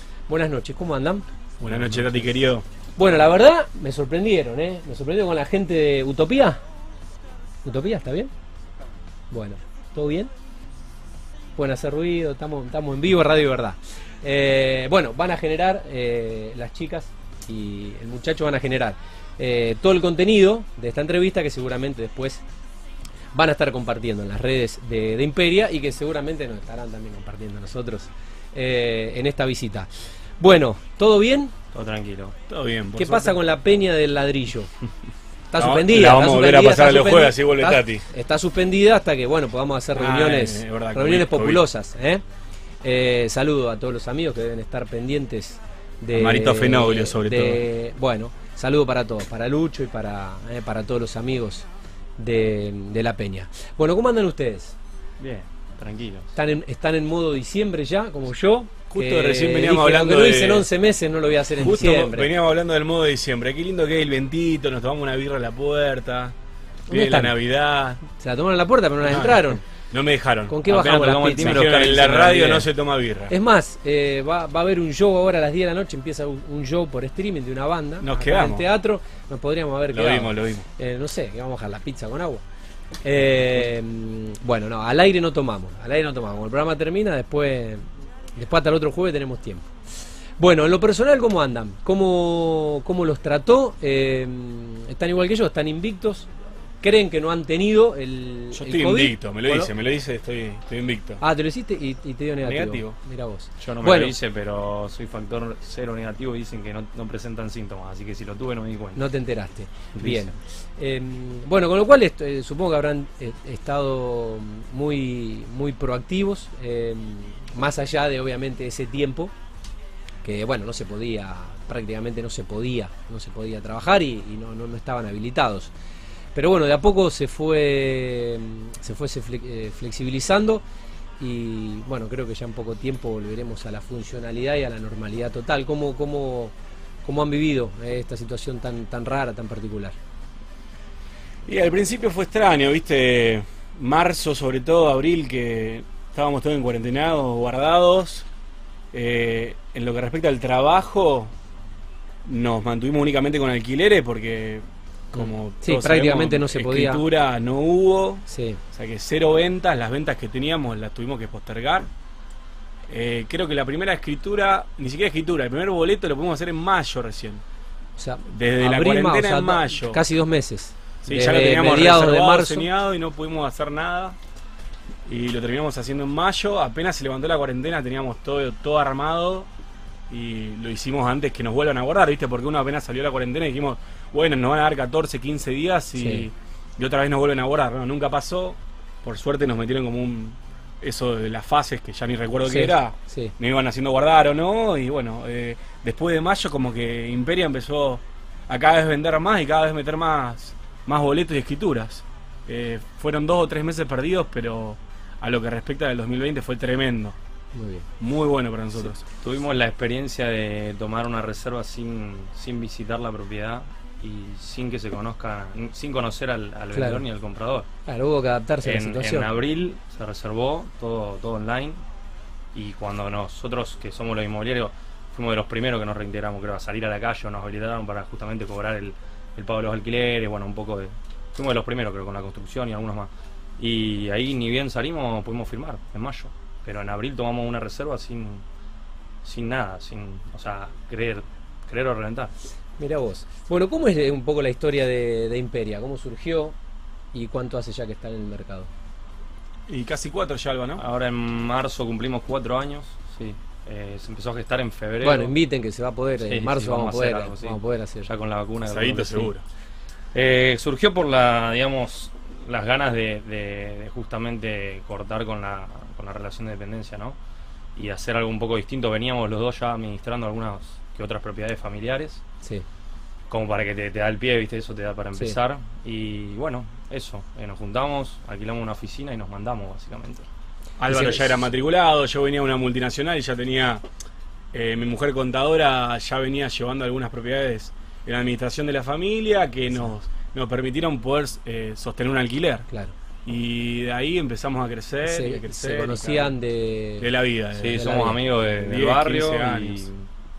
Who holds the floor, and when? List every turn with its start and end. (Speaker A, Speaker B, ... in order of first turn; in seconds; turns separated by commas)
Speaker A: 0.3-1.2, Speaker B: 1.6-2.6, Speaker A: 3.0-6.6, Speaker A: 7.6-8.3, Speaker A: 9.3-10.3, Speaker A: 11.5-22.4, Speaker A: 23.3-31.5, Speaker C: 31.7-32.3, Speaker B: 32.5-33.4, Speaker A: 32.9-34.7, Speaker A: 35.5-42.2, Speaker B: 35.6-38.0, Speaker B: 39.9-41.6, Speaker A: 42.8-51.7, Speaker B: 46.1-47.6, Speaker A: 52.2-54.8, Speaker C: 55.2-56.3, Speaker A: 56.3-62.3, Speaker B: 58.9-60.7, Speaker B: 61.5-66.3, Speaker A: 66.9-67.3, Speaker B: 66.9-68.0, Speaker A: 68.0-69.6, Speaker B: 69.0-70.6, Speaker A: 70.5-71.7, Speaker C: 70.7-72.7, Speaker B: 71.4-73.3, Speaker A: 73.3-82.4, Speaker B: 78.0-78.7, Speaker B: 79.9-80.7, Speaker A: 83.0-89.7, Speaker A: 90.4-96.3, Speaker A: 96.8-99.7, Speaker B: 98.5-101.2, Speaker A: 101.2-104.1, Speaker B: 102.4-103.0, Speaker C: 103.6-109.0, Speaker A: 108.9-119.3, Speaker C: 110.0-110.3, Speaker A: 120.2-125.7, Speaker A: 126.3-130.6, Speaker A: 131.2-136.5, Speaker A: 137.0-140.0, Speaker B: 141.4-148.3, Speaker B: 148.9-151.3, Speaker B: 152.2-161.9, Speaker A: 155.2-157.0, Speaker A: 158.3-158.6, Speaker B: 162.9-167.4, Speaker A: 168.0-172.7, Speaker B: 168.3-170.0, Speaker B: 171.0-174.2, Speaker B: 175.1-179.5, Speaker B: 180.1-207.2, Speaker A: 186.0-186.3, Speaker A: 192.5-193.3, Speaker A: 207.5-207.9, Speaker B: 208.0-209.0, Speaker C: 209.2-217.7, Speaker A: 216.7-217.0, Speaker A: 217.8-219.3, Speaker C: 218.6-221.8, Speaker C: 222.5-238.4, Speaker C: 239.2-242.3, Speaker A: 242.8-246.5, Speaker A: 247.1-248.7, Speaker B: 249.7-250.8, Speaker C: 250.8-255.3, Speaker A: 255.0-258.1, Speaker C: 256.2-259.3, Speaker B: 258.6-259.4, Speaker C: 260.1-267.2, Speaker C: 267.8-272.2, Speaker C: 273.3-280.2, Speaker B: 280.8-283.8, Speaker A: 280.9-281.2, Speaker B: 284.5-292.7, Speaker B: 293.2-296.3, Speaker A: 295.0-297.1, Speaker B: 297.0-299.9, Speaker C: 297.6-300.1, Speaker A: 297.7-298.2